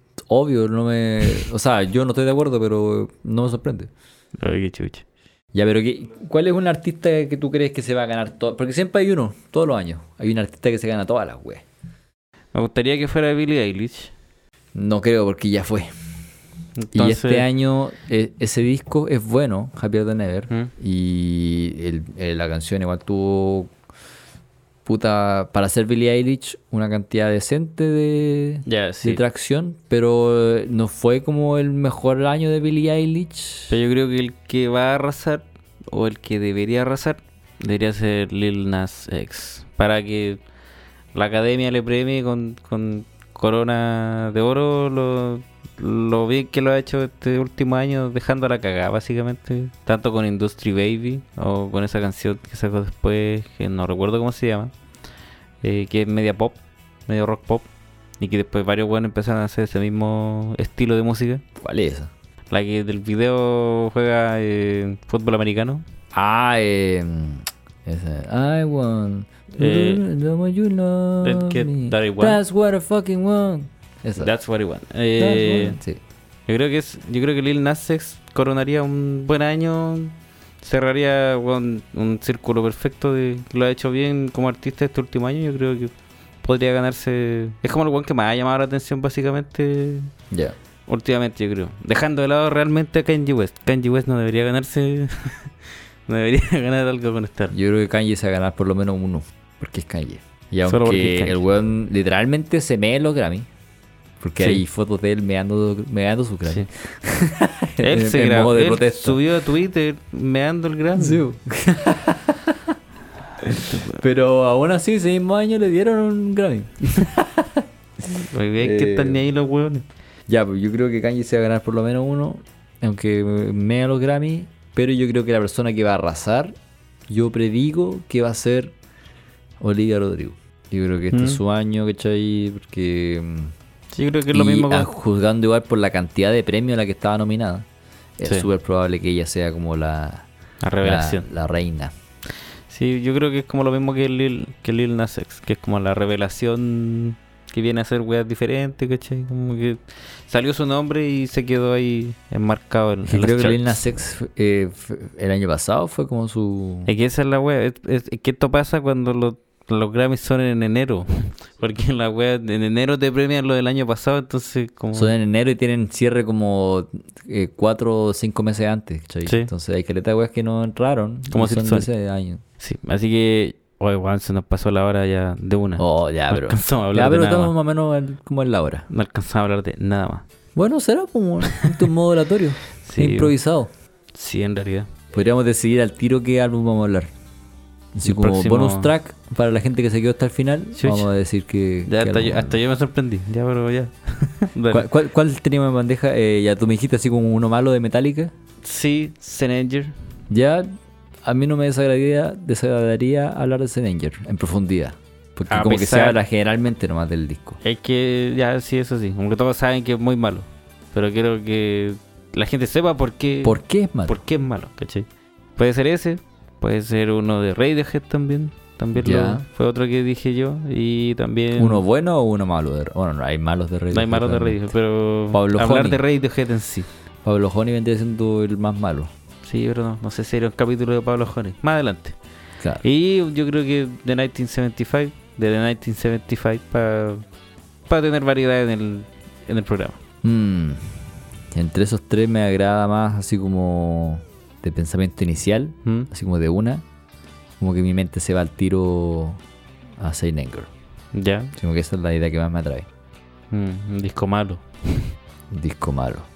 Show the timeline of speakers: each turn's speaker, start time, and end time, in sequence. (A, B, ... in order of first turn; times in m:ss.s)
0:00.3-0:03.9 A
0:04.4-0:05.0 B
0:05.5-0:11.6 A
0:12.5-0:14.1 B
0:14.7-0:15.9 A
0:16.8-0:17.5 B
0:16.9-0:23.7 A
0:24.8-0:33.7 A
0:28.6-0:29.2 B
0:33.7-0:40.4 B
0:41.1-0:54.7 B
0:55.6-0:57.7 B
0:58.2-1:01.4 B
1:01.6-1:02.1 A
1:02.5-1:05.8 B
1:06.1-1:14.3 A
1:09.6-1:10.0 B
1:11.2-1:12.4 B
1:14.2-1:15.8 B
1:15.2-1:16.0 A
1:16.5-1:25.9 B
1:26.4-1:30.1 B
1:30.9-1:35.5 B
1:36.1-1:37.6 B
1:37.5-1:43.5 A
1:40.7-1:41.4 B
1:44.2-1:49.2 A
1:47.8-1:51.2 B
1:51.0-1:52.7 A
1:53.4-1:57.6 A
1:53.5-1:54.0 B
1:58.0-1:59.8 B
1:58.6-1:59.2 A
2:00.3-2:06.5 A
2:07.1-2:08.7 A
2:09.6-2:13.5 A
2:11.1-2:11.4 B
2:13.9-2:14.9 B
2:14.3-2:17.7 A
2:18.2-2:20.3 A
2:20.6-2:21.3 B
2:20.8-2:21.9 A
2:22.7-2:33.8 B
2:33.1-2:36.9 A
2:36.8-2:45.1 B
2:44.9-2:52.4 A
2:51.3-2:51.9 B
2:52.6-2:57.5 B
2:55.8-2:58.8 A
2:58.9-3:00.2 B
3:00.6-3:03.7 A
3:01.5-3:01.9 B
3:02.8-3:03.3 B
3:04.1-3:04.9 B
3:05.1-3:07.1 A
3:07.9-3:12.6 A
3:08.0-3:08.9 B
3:10.8-3:11.1 B
3:11.8-3:14.9 B
3:14.7-3:18.3 A
3:18.6-3:19.9 B
3:20.3-3:20.7 A
3:21.2-3:27.6 A
3:25.5-3:26.2 B
3:27.6-3:35.0 B
3:33.4-3:34.2 A
3:35.6-3:41.8 B
3:39.0-3:39.4 A
3:41.6-3:44.7 A
3:43.9-3:46.9 B
3:45.3-3:46.0 A
3:47.2-3:49.1 A
3:49.4-3:52.2 B
3:52.8-3:57.2 B
3:57.9-4:00.0 B
4:00.2-4:01.0 A
4:01.5-4:06.8 A
4:07.6-4:09.4 A
4:10.0-4:10.7 A
4:11.1-4:11.5 B
4:11.6-4:12.9 A
4:13.5-4:15.1 B
4:15.5-4:16.3 A